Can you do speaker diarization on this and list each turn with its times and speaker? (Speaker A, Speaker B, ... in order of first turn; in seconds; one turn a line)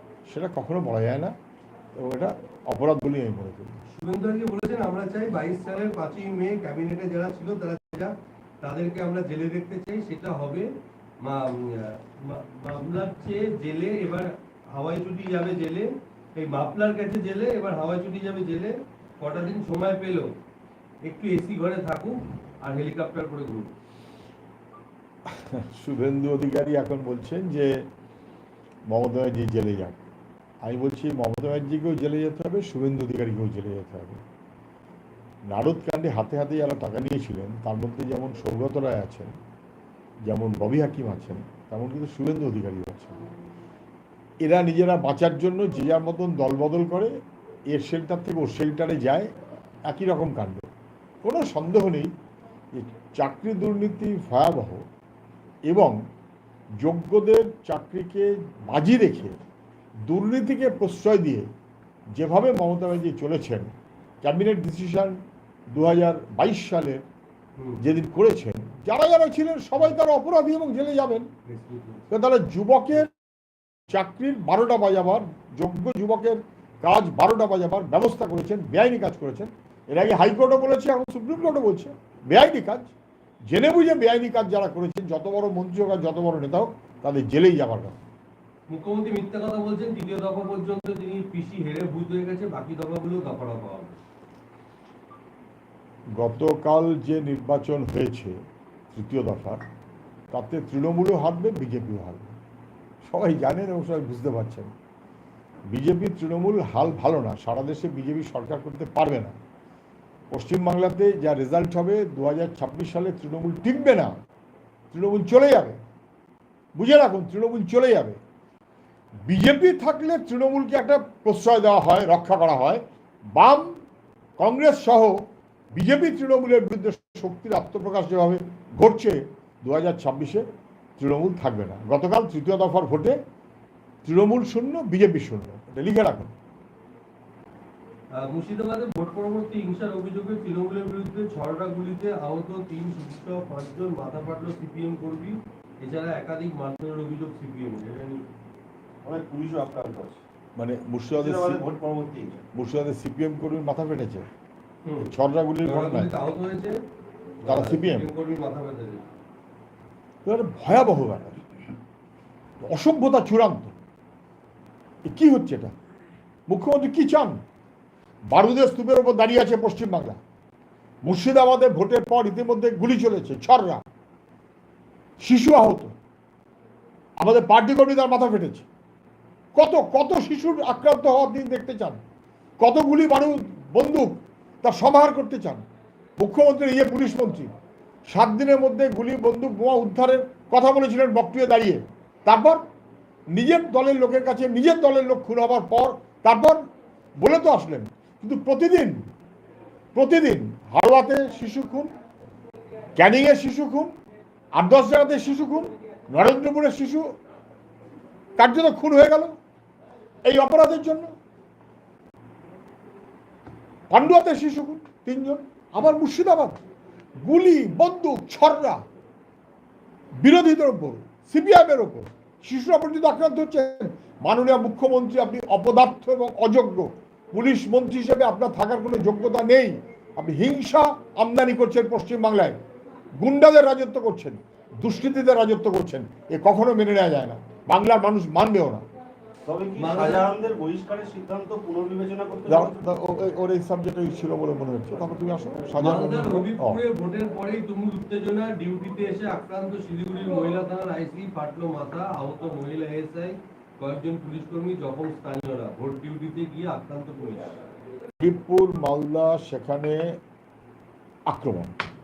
Speaker A: 0.3-1.4
Speaker A: 1.9-3.8
Speaker B: 3.9-10.7
Speaker B: 11.2-20.3
Speaker B: 21.0-23.7
Speaker A: 25.3-27.9
Speaker A: 28.9-30.0
Speaker A: 30.6-34.2
Speaker A: 35.5-39.3
Speaker A: 40.3-43.2
Speaker A: 44.4-47.1
Speaker A: 47.7-49.3
Speaker A: 49.9-50.7
Speaker A: 51.2-52.1
Speaker A: 52.7-54.8
Speaker A: 55.7-56.0
Speaker A: 56.8-59.4
Speaker A: 60.1-61.5
Speaker A: 62.2-63.7
Speaker A: 64.2-65.2
Speaker A: 65.7-67.0
Speaker B: 67.6-67.8
Speaker A: 67.8-71.3
Speaker B: 71.5-72.0
Speaker A: 72.1-73.1
Speaker A: 73.9-82.9
Speaker A: 83.5-88.0
Speaker B: 88.7-94.0
Speaker A: 96.2-98.4
Speaker A: 98.9-99.6
Speaker A: 100.3-102.4
Speaker A: 103.0-104.7
Speaker A: 105.7-109.3
Speaker A: 110.3-114.1
Speaker A: 114.9-115.8
Speaker A: 116.8-118.2
Speaker A: 119.3-122.8
Speaker A: 123.3-123.8
Speaker A: 124.4-125.2
Speaker A: 125.7-130.4
Speaker A: 131.0-133.2
Speaker A: 134.1-136.3
Speaker B: 138.2-148.3
Speaker C: 149.1-150.2
Speaker A: 150.6-151.6
Speaker C: 151.1-152.4
Speaker A: 152.5-154.3
Speaker A: 155.0-156.1
Speaker B: 155.6-156.8
Speaker B: 157.4-159.1
Speaker A: 157.4-158.1
Speaker A: 160.2-161.5
Speaker A: 162.6-163.7
Speaker A: 165.1-165.7
Speaker A: 166.5-167.4
Speaker A: 168.3-170.2
Speaker A: 171.0-173.8
Speaker A: 175.2-175.9
Speaker A: 177.2-178.7
Speaker A: 179.6-182.0
Speaker A: 182.6-185.6
Speaker A: 186.2-187.5
Speaker A: 188.1-192.6
Speaker A: 193.3-196.6
Speaker A: 197.2-199.0
Speaker A: 199.9-201.9
Speaker A: 203.0-203.9
Speaker A: 204.6-207.0
Speaker A: 208.4-209.3
Speaker A: 210.3-211.1
Speaker A: 213.9-216.6
Speaker A: 217.2-218.8
Speaker A: 220.2-232.6
Speaker A: 233.2-238.8
Speaker C: 239.5-242.9
Speaker B: 239.8-240.3
Speaker A: 242.5-246.8
Speaker B: 245.8-257.6
Speaker A: 258.2-260.2
Speaker A: 261.3-261.8